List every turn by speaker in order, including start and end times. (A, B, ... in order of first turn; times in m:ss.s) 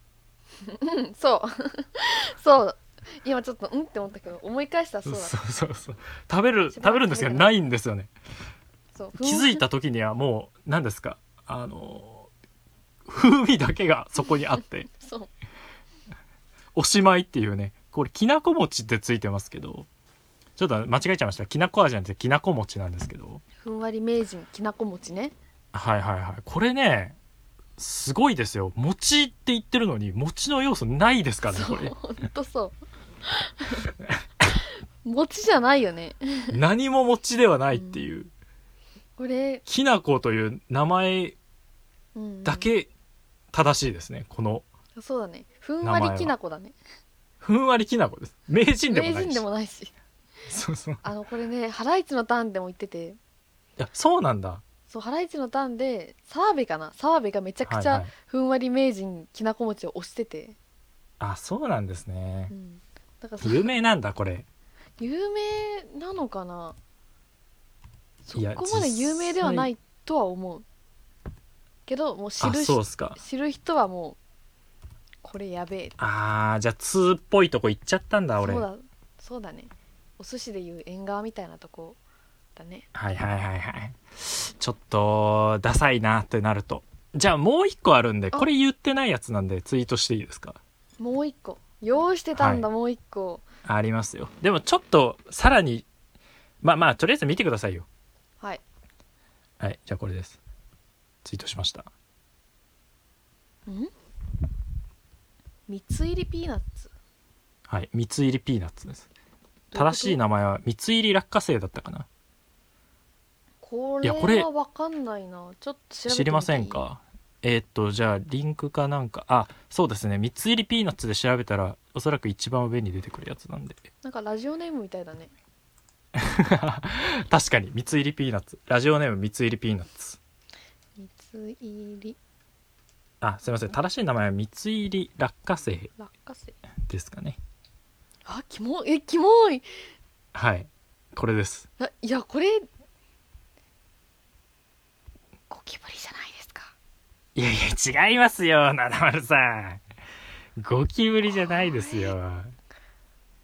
0:00.6-0:05.4 A
0:05.0-0:08.1 B
0:06.7-0:07.5 A
0:09.0-0:09.6 A
0:09.2-0:12.3 B
0:13.0-0:14.9 B
0:14.9-0:15.3 A
0:16.8-0:19.9 B
0:20.6-0:23.4 B
0:23.6-0:25.4 A
0:25.7-0:27.2 B
0:27.8-0:32.0 B
0:31.5-0:33.9 A
0:35.0-0:36.5 A
0:36.5-0:38.3 B
0:37.7-0:38.1 A
0:39.2-0:39.6 A
0:39.7-0:41.4 B
0:42.2-0:42.7 A
0:42.4-0:42.9 B
0:43.5-0:44.7 B
0:45.0-0:46.8 A
0:45.8-0:46.4 B
0:47.4-0:49.4 B
0:48.9-0:49.9 A
0:50.5-0:51.0 B
0:51.0-0:53.2 A
0:53.8-0:54.6 B
0:54.9-1:00.6 A
0:57.6-0:58.1 B
1:01.2-1:02.5 B
1:02.5-1:03.7 A
1:03.4-1:04.5 B
1:05.0-1:06.8 A
1:08.3-1:10.6 A
1:08.4-1:09.7 B
1:11.9-1:14.2 A
1:12.4-1:13.2 B
1:15.2-1:16.0 A
1:16.0-1:18.7 B
1:18.4-1:22.0 A
1:22.6-1:22.9 A
1:22.9-1:30.6 B
1:31.0-1:33.4 A
1:32.4-1:32.7 B
1:33.6-1:35.9 B
1:36.6-1:37.9 B
1:39.6-1:40.4 B
1:41.2-1:41.9 B
1:43.7-1:43.9 A
1:45.7-1:46.9 A
1:47.7-1:49.1 B
1:49.7-1:50.2 A
1:49.7-1:52.1 B
1:53.6-1:56.9 A
1:54.0-1:54.5 B
1:56.1-2:03.8 B
2:04.0-2:05.3 A
2:06.2-2:10.2 B
2:11.0-2:12.2 A
2:13.2-2:15.9 B
2:16.0-2:16.6 A
2:16.9-2:17.4 B
2:18.3-2:19.7 A
2:20.3-2:21.7 B
2:21.8-2:22.7 A
2:25.5-2:26.7 A
2:27.4-2:29.8 B
2:30.6-2:32.6 B
2:31.3-2:32.2 A